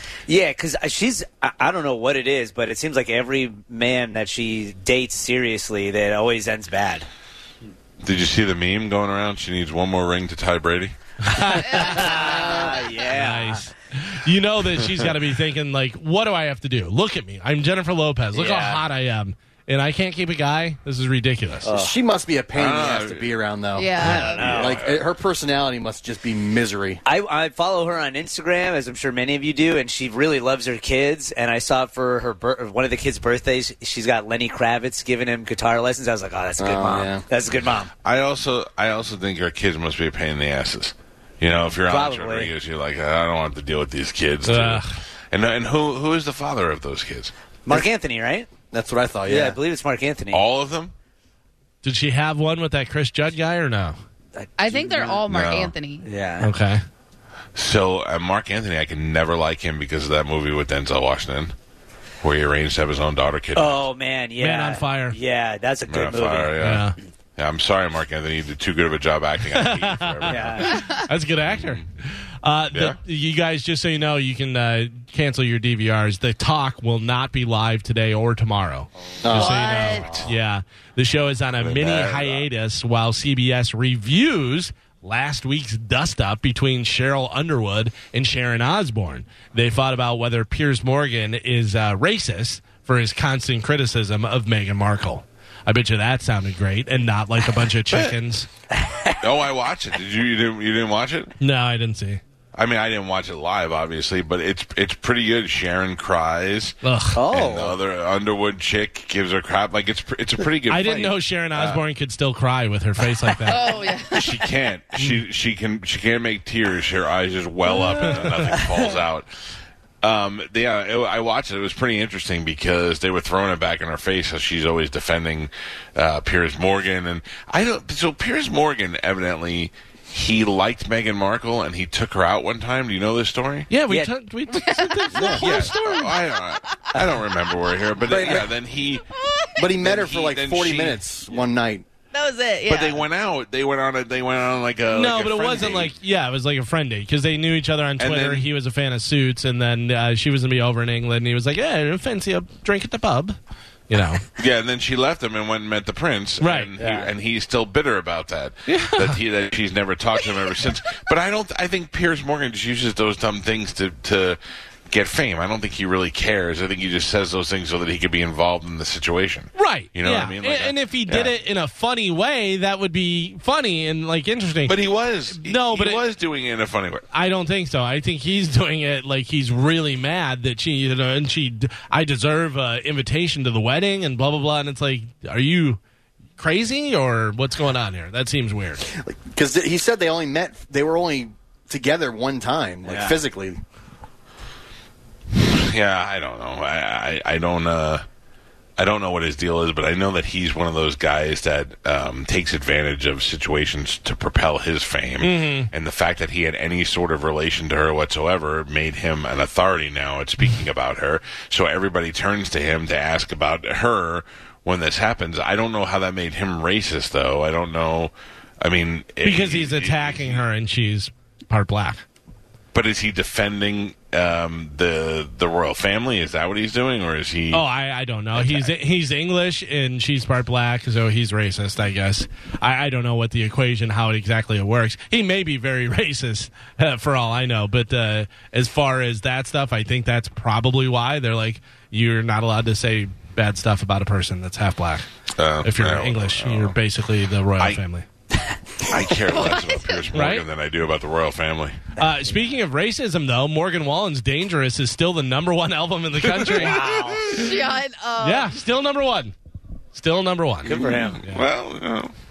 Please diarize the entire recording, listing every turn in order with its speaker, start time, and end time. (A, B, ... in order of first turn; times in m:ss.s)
0:00.3-0:07.1 A
0:08.0-0:10.9 B
0:11.2-0:12.5 C
0:11.7-0:12.8 D
0:11.7-0:13.6 A
0:13.0-0:21.7 C
0:18.3-0:18.8 A
0:21.6-0:22.0 A
0:21.7-0:27.0 E
0:22.5-0:23.3 B
0:23.7-0:24.5 D
0:24.0-0:24.4 C
0:24.0-0:24.8 A
0:24.1-0:25.0 B
0:27.0-0:37.9 A
0:36.6-0:37.2 E
0:38.0-0:47.3 B
0:41.9-0:42.5 A
0:44.4-0:44.9 C
0:47.6-0:48.5 A
0:48.7-0:49.6 E
0:49.2-0:50.4 A
0:50.3-0:50.9 B
0:51.8-0:54.0 C
0:54.3-0:55.2 A
0:54.6-0:56.1 D
0:55.3-0:55.7 B
0:56.0-0:56.5 A
0:56.4-0:56.8 C
0:57.5-1:01.5 B
1:02.2-1:03.8 B
1:03.5-1:06.6 A
1:04.4-1:05.2 C
1:05.9-1:10.9 B
1:06.6-1:07.0 C
1:09.5-1:38.5 C
1:10.3-1:10.8 A
1:11.4-1:11.8 B
1:12.7-1:13.0 B
1:19.2-1:19.8 E
1:19.3-1:20.1 D
1:20.0-1:20.3 B
1:21.6-1:22.4 B
1:38.7-1:39.2 A
1:39.2-1:41.3 B
1:41.4-1:42.2 C
1:42.5-1:51.8 B
1:46.8-1:47.2 C
1:47.1-1:47.8 A
1:50.7-1:53.6 C
1:53.5-1:54.2 D
1:54.1-1:59.3 B
1:57.9-1:58.5 C
1:58.5-1:59.0 A
2:00.0-2:13.7 B
2:13.7-2:16.2 C
2:14.5-2:15.3 D
2:15.1-2:15.4 E
2:15.3-2:19.0 B
2:18.1-2:18.5 A
2:19.2-2:19.5 D
2:19.6-2:21.8 E
2:19.7-2:21.1 B
2:22.1-2:23.0 D
2:22.6-2:25.9 B
2:24.9-2:33.4 C
2:28.0-2:28.5 B
2:33.9-2:34.2 C
2:34.4-2:51.3 B
2:36.4-2:36.7 C
2:36.8-2:37.1 A
2:38.7-2:39.2 C
2:49.6-2:54.8 C
2:54.6-2:57.0 B
2:55.3-2:56.0 C
2:57.1-3:05.8 C
3:06.4-3:08.8 C
3:09.0-3:13.6 E
3:12.8-3:13.2 A
3:15.3-3:18.0 B
3:18.8-3:40.4 B
3:25.2-3:25.7 C
3:39.2-3:42.0 C
3:42.7-3:47.6 B
3:47.5-4:05.0 C
3:48.3-3:48.7 B
4:05.4-4:06.8 B
4:05.6-4:08.0 C
4:08.8-4:11.8 B
4:09.3-4:09.9 D
4:10.1-4:10.5 C
4:12.0-4:17.5 C
4:16.2-4:16.6 B
4:16.6-4:17.5 A
4:17.3-4:18.6 D
4:18.2-4:19.3 C
4:19.9-4:21.4 C
4:20.7-4:21.3 A
4:20.7-4:22.1 B